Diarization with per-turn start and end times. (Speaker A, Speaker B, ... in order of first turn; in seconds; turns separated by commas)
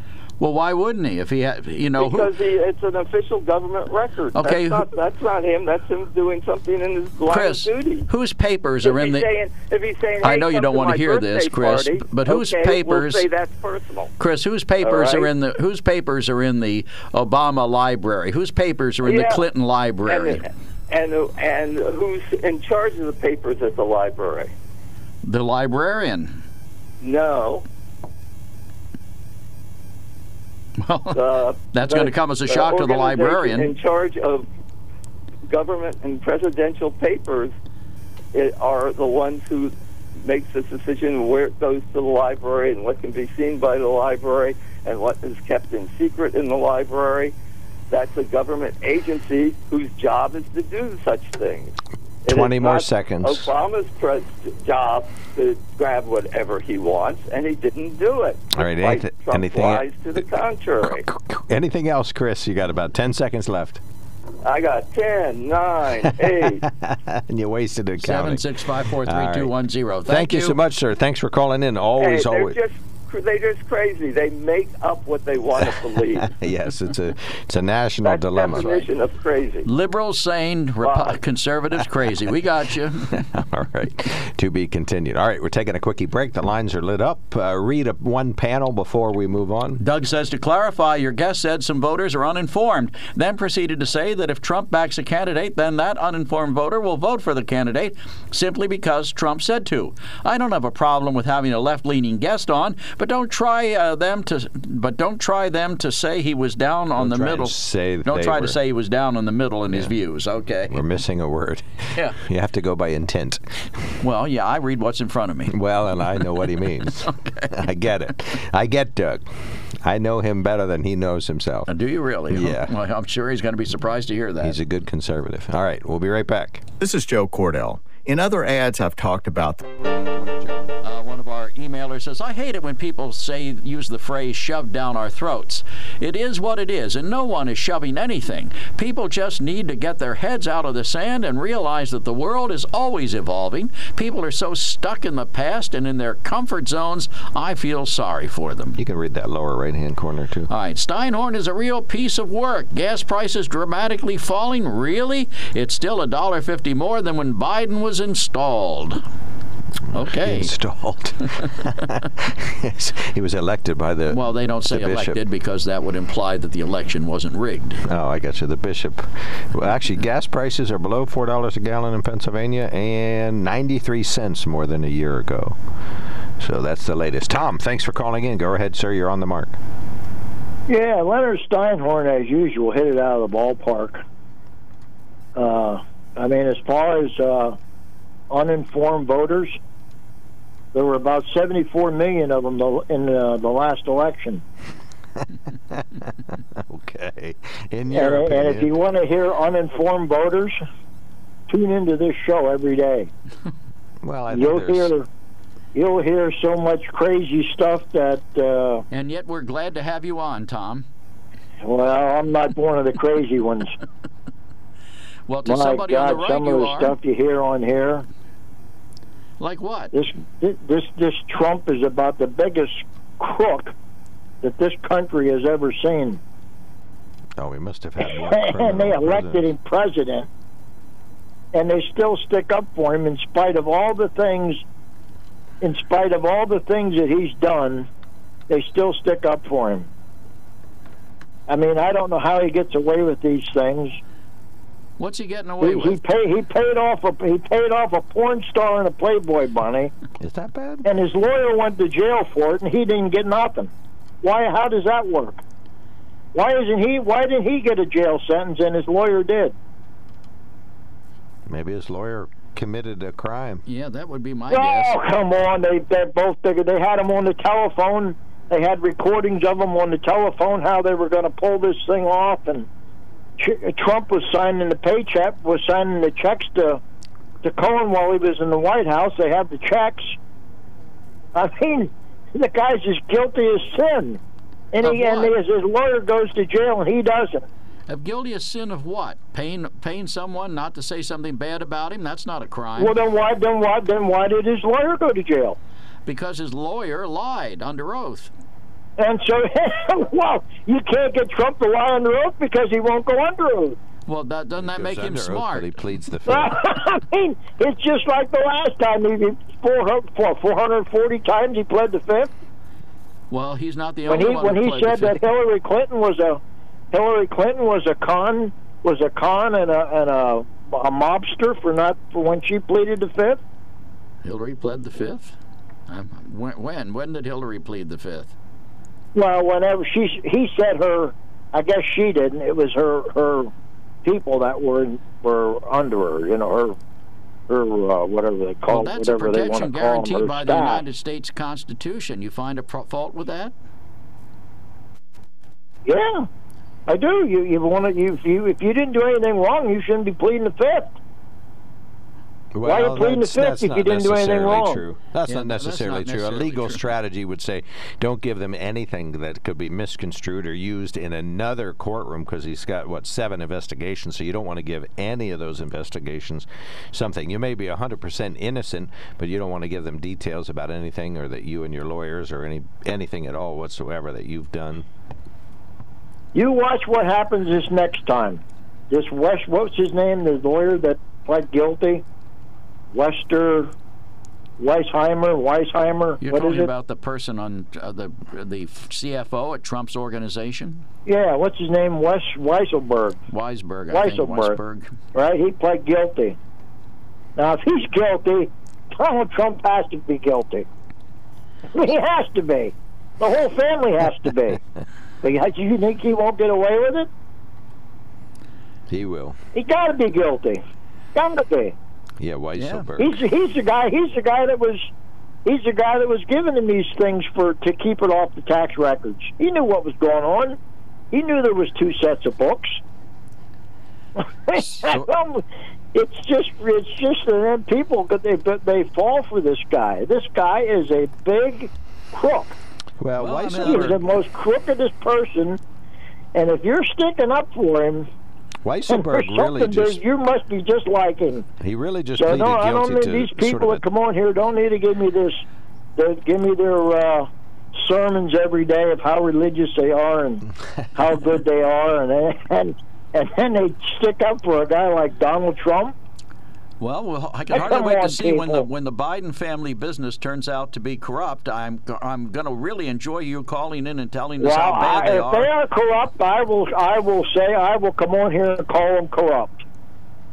Speaker A: 0.4-2.3, Speaker B: 2.0-8.1, Speaker A: 4.3-4.9, Speaker A: 7.3-9.3, Speaker B: 8.8-14.1, Speaker A: 10.2-13.3, Speaker A: 14.2-20.4, Speaker B: 14.8-15.3, Speaker B: 19.0-19.4, Speaker B: 20.1-24.5, Speaker A: 25.2-26.4, Speaker B: 27.0-27.6, Speaker A: 30.8-33.7, Speaker B: 31.1-34.5, Speaker B: 35.5-37.5, Speaker B: 38.3-47.3, Speaker B: 47.9-61.0, Speaker C: 52.2-53.5, Speaker C: 58.5-60.2, Speaker C: 60.8-63.8, Speaker B: 64.4-66.6, Speaker C: 66.2-69.5, Speaker A: 68.0-70.6, Speaker C: 70.0-72.6, Speaker B: 72.0-76.3, Speaker C: 75.9-78.8, Speaker B: 78.0-79.7, Speaker A: 78.5-78.8, Speaker A: 79.6-83.2, Speaker B: 80.8-81.2, Speaker C: 83.1-89.8, Speaker A: 89.8-110.8, Speaker C: 107.0-108.6, Speaker C: 110.7-113.7, Speaker A: 114.0-117.5, Speaker C: 115.5-121.7, Speaker A: 121.7-124.6, Speaker C: 122.3-122.7, Speaker C: 124.4-126.7, Speaker D: 126.8-129.7, Speaker C: 130.2-130.5, Speaker A: 130.8-148.8, Speaker C: 148.8-150.5, Speaker A: 150.5-159.0, Speaker A: 159.9-160.5, Speaker C: 159.9-165.2, Speaker A: 164.1-167.8, Speaker C: 167.9-175.6, Speaker C: 176.4-179.6, Speaker E: 180.7-184.0, Speaker E: 185.3-187.6, Speaker E: 188.3-189.6, Speaker E: 190.7-194.4, Speaker C: 196.5-198.7, Speaker E: 197.9-200.6, Speaker E: 201.5-203.1, Speaker C: 204.0-204.9, Speaker E: 204.3-205.1, Speaker E: 205.7-208.8, Speaker A: 208.9-210.8, Speaker E: 211.6-213.7, Speaker A: 215.3-217.0, Speaker E: 215.4-218.0, Speaker A: 219.4-219.9, Speaker E: 219.9-223.7, Speaker E: 224.4-226.2, Speaker C: 227.4-229.5, Speaker E: 228.0-230.3, Speaker E: 231.5-234.6, Speaker E: 235.6-237.9, Speaker E: 238.5-239.9, Speaker E: 241.5-244.0, Speaker A: 245.0-246.0, Speaker E: 245.6-249.9, Speaker C: 250.2-250.9, Speaker E: 250.8-253.7, Speaker E: 254.2-255.4, Speaker E: 256.3-259.6, Speaker C: 261.5-263.6, Speaker A: 263.6-265.0, Speaker E: 264.5-272.7, Speaker E: 273.4-276.8, Speaker E: 277.4-280.2, Speaker E: 281.3-284.2, Speaker E: 284.7-287.4, Speaker A: 284.8-285.4, Speaker A: 287.9-293.0, Speaker E: 292.8-295.6, Speaker A: 296.1-298.3, Speaker E: 299.0-303.8, Speaker A: 304.1-305.8, Speaker C: 304.6-306.6, Speaker E: 306.3-312.3, Speaker A: 313.3-315.2, Speaker E: 314.1-316.4, Speaker E: 316.9-323.4, Speaker A: 324.2-325.3, Speaker A: 325.9-328.3, Speaker E: 329.1-333.5, Speaker E: 334.0-336.8, Speaker E: 337.5-340.8, Speaker A: 338.7-343.5, Speaker E: 345.8-346.3, Speaker E: 346.9-350.9, Speaker C: 352.5-374.9, Speaker E: 352.6-354.8, Speaker A: 355.3-356.9, Speaker E: 376.3-382.0, Speaker E: 382.9-383.7, Speaker E: 384.6-386.7, Speaker A: 386.2-390.8, Speaker E: 391.1-393.2, Speaker A: 393.3-394.9, Speaker E: 393.9-394.6, Speaker E: 395.1-396.4, Speaker E: 397.4-400.7, Speaker E: 401.7-404.6, Speaker E: 405.2-407.1, Speaker C: 408.9-409.4, Speaker E: 409.5-410.6, Speaker E: 411.1-411.8, Speaker C: 412.2-413.1, Speaker A: 412.6-412.9, Speaker E: 413.0-414.9, Speaker E: 415.4-420.6, Speaker E: 421.1-422.8, Speaker E: 424.2-425.4, Speaker E: 425.9-432.6, Speaker C: 433.0-434.0, Speaker A: 433.2-434.0, Speaker E: 433.6-435.6, Speaker E: 436.3-438.1, Speaker C: 438.6-440.0, Speaker E: 438.9-441.4, Speaker C: 441.6-443.8, Speaker E: 442.2-445.4, Speaker E: 446.0-450.4, Speaker E: 450.9-455.9, Speaker A: 456.8-465.5, Speaker E: 457.5-458.7, Speaker E: 464.4-469.6